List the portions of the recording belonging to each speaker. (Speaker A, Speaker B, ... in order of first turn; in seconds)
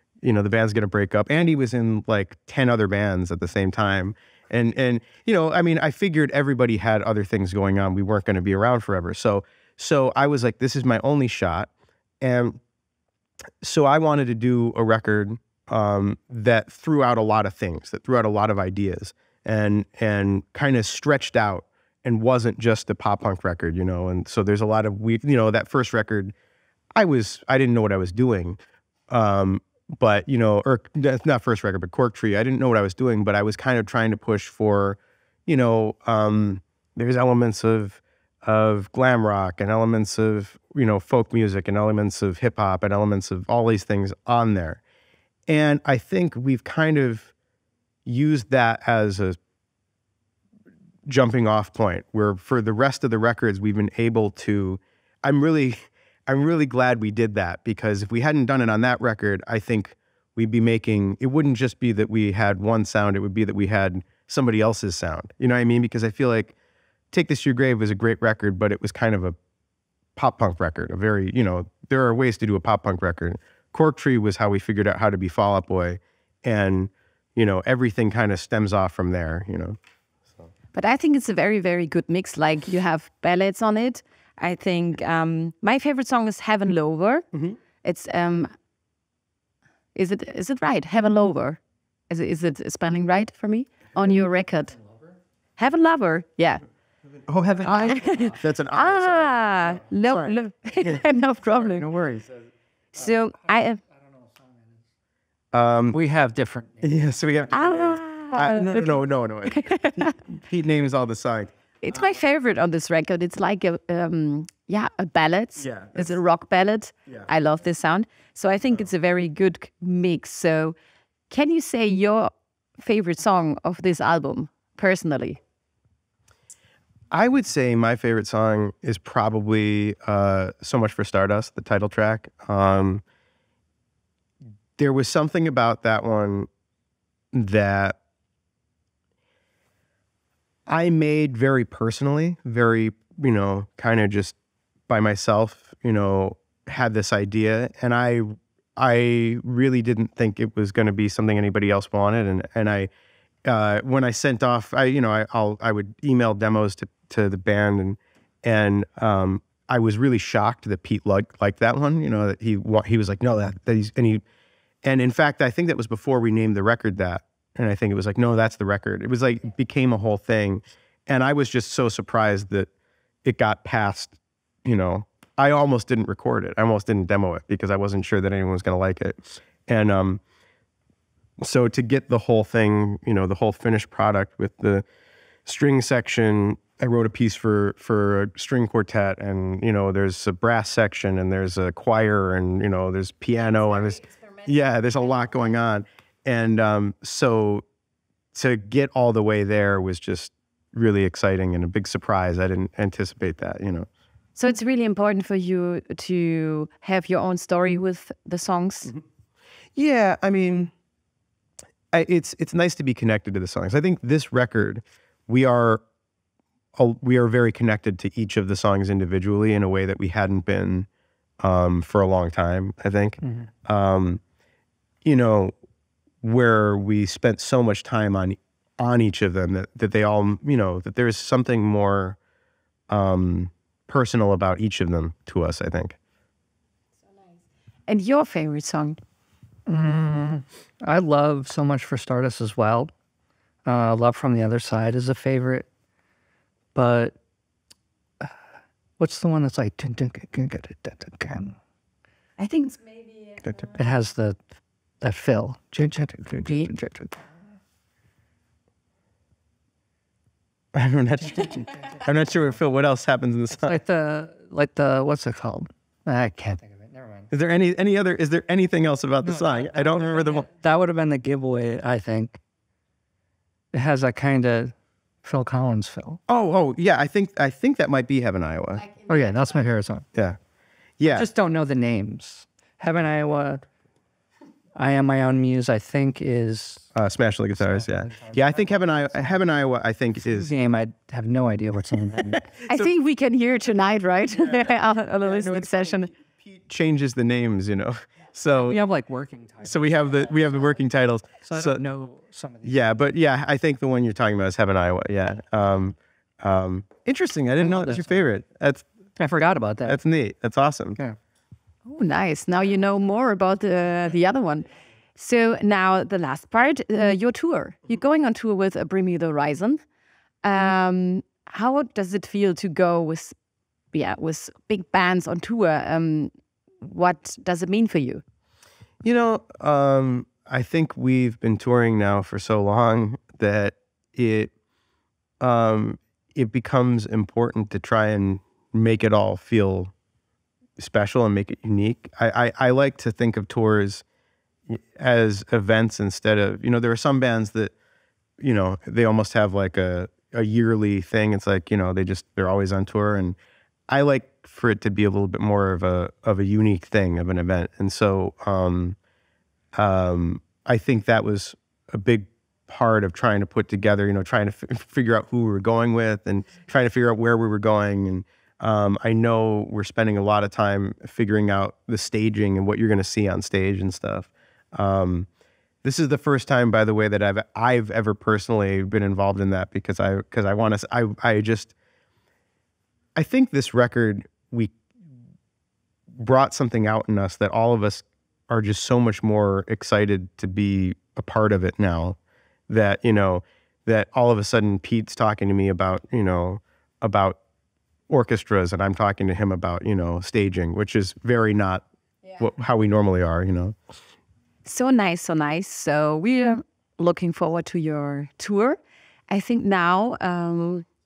Speaker A: 0.2-11.7, 12.2-12.6, 13.6-26.3, 27.0-44.8, 45.5-47.3, 48.1-49.4, 51.1-66.5, 67.1-69.4, 70.2-79.8, 97.3-100.3, 105.5-106.0, 106.8-111.5, 115.7-116.0, 127.1-133.0, 134.8-136.5, 137.3-138.0, 140.7-144.3, 144.9-152.9, 153.4-164.2, 164.8-172.7, 173.2-180.2, 181.4-184.8, 185.5-197.6, 198.3-203.9, 209.8-210.7, 211.9-215.8, 216.8-220.9, 221.4-224.2, 225.1-225.5, 226.2-232.2, 232.9-236.0, 260.7-263.8, 267.3-270.5, 276.3-278.9, 281.0-281.3, 286.9-290.5, 295.2-298.8, 299.6-301.8, 302.6-308.9, 309.8-311.0, 329.0-334.5, 335.4-339.9, 340.8-344.0, 344.7-347.7, 348.4-353.4, 353.9-359.0, 359.8-375.3, 375.8-381.7, 383.1-384.7, 386.2-392.2, 392.7-397.4, 398.1-401.8, 402.4-403.8
Speaker B: 80.7-87.3, 87.8-88.5, 90.0-94.8, 95.6-96.6, 97.9-101.9, 102.9-103.8, 107.5-109.0, 109.5-110.1, 111.8-120.8, 121.3-125.4, 204.4-208.9, 237.9-239.0, 252.4-253.5, 292.7-296.1, 311.9-319.8, 320.4-323.4, 323.9-326.3, 326.8-328.2, 404.6-410.9
Speaker C: 97.7-98.2, 101.7-102.4, 104.2-104.6, 105.9-107.0, 239.7-242.9, 243.7-245.7, 246.8-247.2, 249.0-251.6, 253.8-254.4, 255.0-257.2, 263.6-267.3, 269.2-272.4, 273.7-274.7, 275.2-276.2, 279.1-280.1, 281.1-283.6, 284.8-286.9, 287.6-288.8, 290.2-292.5, 298.6-300.0, 301.4-302.8, 307.6-308.1, 309.2-310.0